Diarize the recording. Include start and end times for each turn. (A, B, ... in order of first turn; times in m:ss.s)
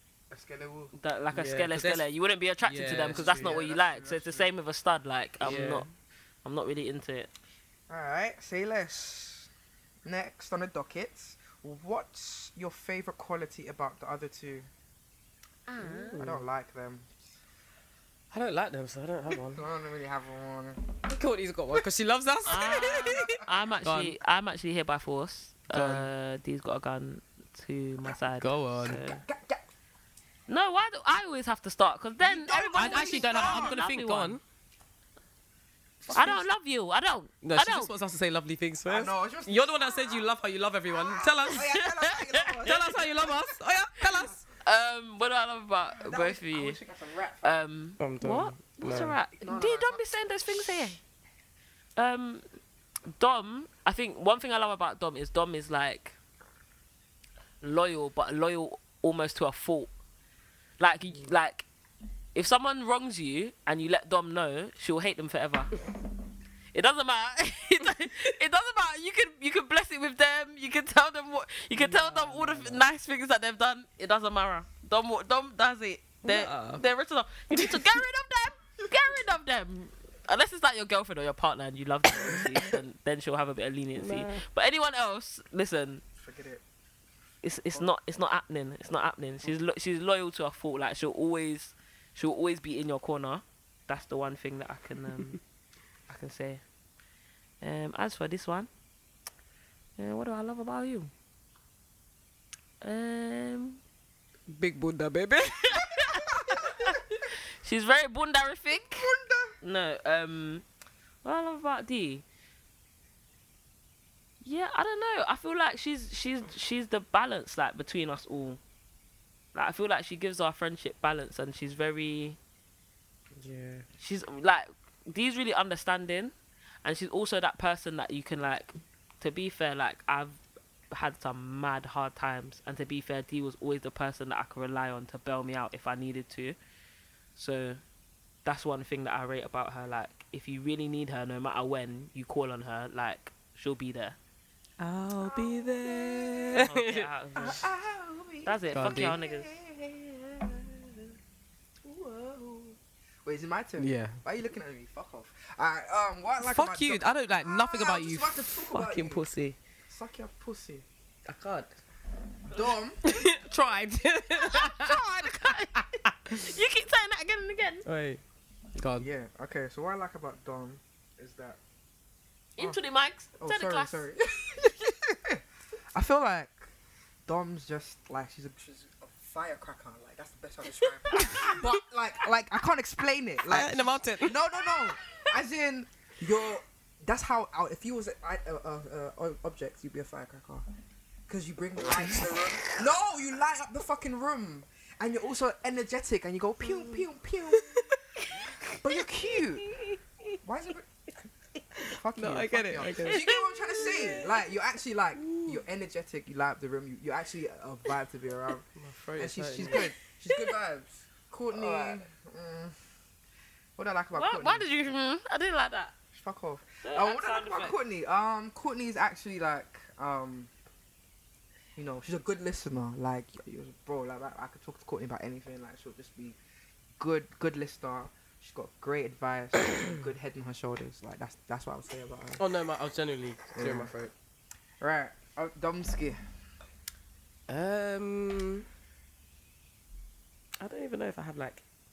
0:00.3-0:00.9 A
0:00.9-0:05.9 B
0:01.3-0:02.0 C
0:02.6-0:03.6 C
0:03.0-0:04.5 A
0:05.4-0:05.8 C
0:06.4-0:07.3 B
0:07.9-0:09.5 A
0:10.0-0:14.7 A
0:15.7-0:16.2 B
0:15.8-0:16.4 C
0:16.2-0:17.1 A
0:18.3-0:19.6 C
0:19.5-0:20.8 A
0:21.0-0:24.2 C
0:22.4-0:29.2 B
0:22.6-0:23.3 A
0:25.7-0:26.1 C
0:28.3-0:29.0 C
0:28.9-0:29.6 A
0:30.5-0:34.4 B
0:32.2-0:33.8 A
0:32.8-0:34.4 C
0:36.0-0:36.4 A
0:36.1-0:37.9 B
0:37.4-0:41.7 C
0:38.9-0:40.2 A
0:40.9-0:43.3 A
0:41.5-0:43.2 B
0:42.6-0:44.4 C
0:44.1-0:46.8 B
0:45.9-0:47.5 A
0:47.4-0:51.0 B
0:48.0-0:49.2 C
0:49.4-0:50.2 A
0:52.0-0:52.4 B
0:53.1-0:56.2 B
0:57.6-0:59.9 B
1:00.8-1:01.7 B
1:02.3-1:05.8 B
1:06.7-1:26.0 B
1:11.7-1:12.8 C
1:16.2-1:16.8 C
1:17.5-1:18.0 C
1:24.0-1:24.4 C
1:26.2-1:26.6 A
1:27.4-1:35.4 B
1:36.1-1:36.6 B
1:37.6-1:38.7 B
1:40.0-1:41.1 B
1:42.8-1:43.8 B
1:44.5-1:45.9 C
1:45.6-1:49.1 B
1:46.4-1:46.9 A
1:48.7-1:49.6 A
1:49.6-1:50.6 B
1:51.2-1:52.2 B
1:54.4-1:58.6 B
1:59.5-2:02.4 B
2:03.4-2:03.9 C
2:04.0-2:16.6 B
2:17.4-2:17.8 B
2:18.4-2:24.2 B
2:24.8-2:27.1 C
2:25.2-2:26.7 A
2:26.6-2:27.7 B
2:27.4-2:31.1 A
2:28.4-2:29.6 B
2:28.7-2:29.2 C
2:31.8-2:39.2 A
2:33.8-2:34.2 C
2:36.4-2:39.6 C
2:39.9-2:40.8 A
2:41.2-2:41.7 C
2:42.5-2:43.0 A
2:43.0-2:45.4 C
2:44.3-2:47.8 B
2:46.0-2:46.5 C
2:47.8-2:48.2 C
2:48.8-2:49.1 C
2:49.0-2:51.6 A
2:52.6-2:54.0 B
2:53.4-2:55.4 A
2:55.9-2:56.7 A
2:57.2-3:10.6 A
3:01.1-3:01.8 C
3:03.5-3:04.4 C
3:05.0-3:05.3 B
3:11.3-3:17.9 A
3:11.8-3:12.8 C
3:16.6-3:18.0 C
3:18.8-3:19.7 A
3:19.6-3:20.0 B
3:20.4-3:20.9 A
3:21.7-3:24.5 C
3:21.9-3:28.6 A
3:23.0-3:24.2 B
3:25.1-3:25.6 C
3:28.8-3:29.9 C
3:29.2-3:32.8 A
3:31.5-3:32.0 B
3:33.8-3:34.7 A
3:34.1-3:35.9 B
3:36.1-3:40.5 A
3:36.8-3:37.8 B
3:41.8-3:46.4 A
3:47.0-3:52.4 A
3:52.4-3:54.1 C
3:53.5-3:53.9 A
3:54.8-3:56.2 A
3:57.5-3:58.6 C
4:00.6-4:01.6 C